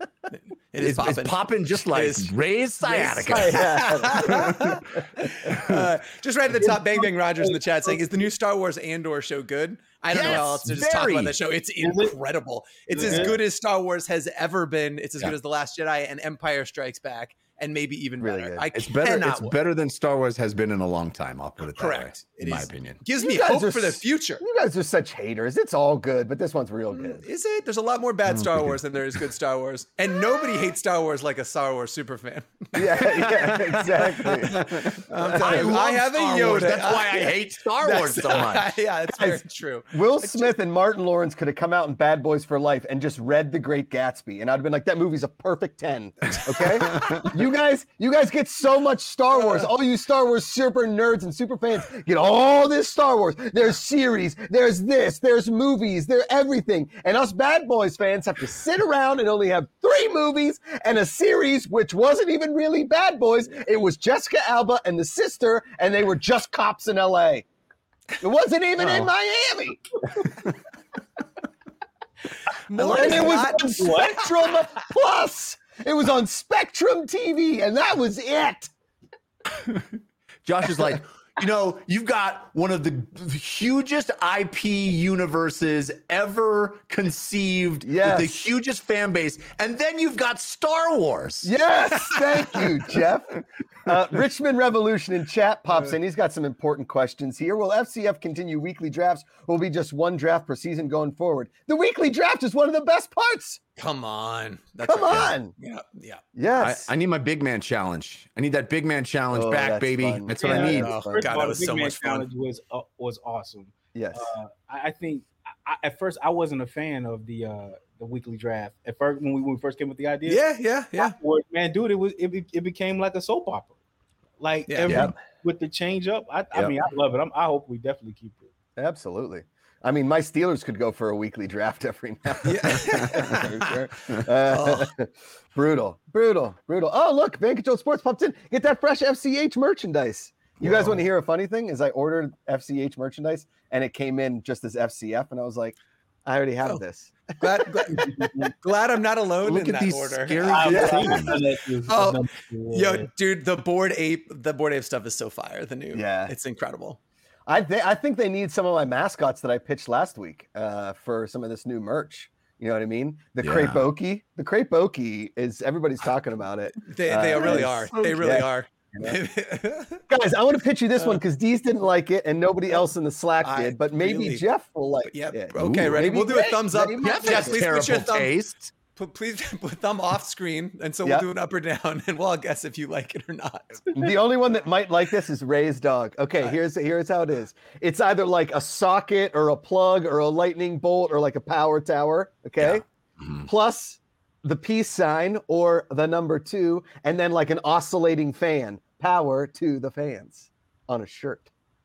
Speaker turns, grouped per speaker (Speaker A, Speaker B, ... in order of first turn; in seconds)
Speaker A: 0.7-2.3, 2.8-19.5, 21.7-24.4, 26.9-33.6, 35.0-40.5, 49.3-49.7, 72.7-73.6, 103.8-106.2, 110.5-112.2, 120.3-121.1, 124.7-125.0, 132.4-133.7, 134.5-134.9, 147.4-151.3, 151.9-152.2, 152.7-157.0, 166.8-170.0, 173.4-174.4, 175.0-178.3, 178.9-183.9
Speaker B: 0.8-5.9, 10.1-11.3, 18.7-23.0, 28.2-29.2, 33.0-38.8, 46.9-47.2, 68.8-69.1, 72.7-73.4, 79.6-79.9, 80.4-91.5, 106.6-111.2, 124.8-125.1, 133.0-133.3, 140.6-140.9, 149.4-151.4, 163.4-163.9, 175.5-176.2, 177.0-178.7, 192.6-193.5
Speaker C: 3.3-5.3, 18.2-18.7, 23.2-27.2, 32.7-35.7, 39.1-67.5, 68.2-70.5, 72.8-78.7, 87.8-88.5, 91.4-103.6, 104.8-105.5, 106.3-106.9, 109.3-111.2, 113.9-114.2, 128.8-148.3, 150.7-151.1, 155.9-156.3, 157.5-169.2, 170.1-177.7, 183.9-192.8, 193.4-201.5
Speaker D: 6.6-8.0, 11.8-12.1, 13.0-13.3, 72.9-74.2, 110.4-120.4, 121.0-123.7, 124.4-128.5, 147.9-148.2, 150.5-153.1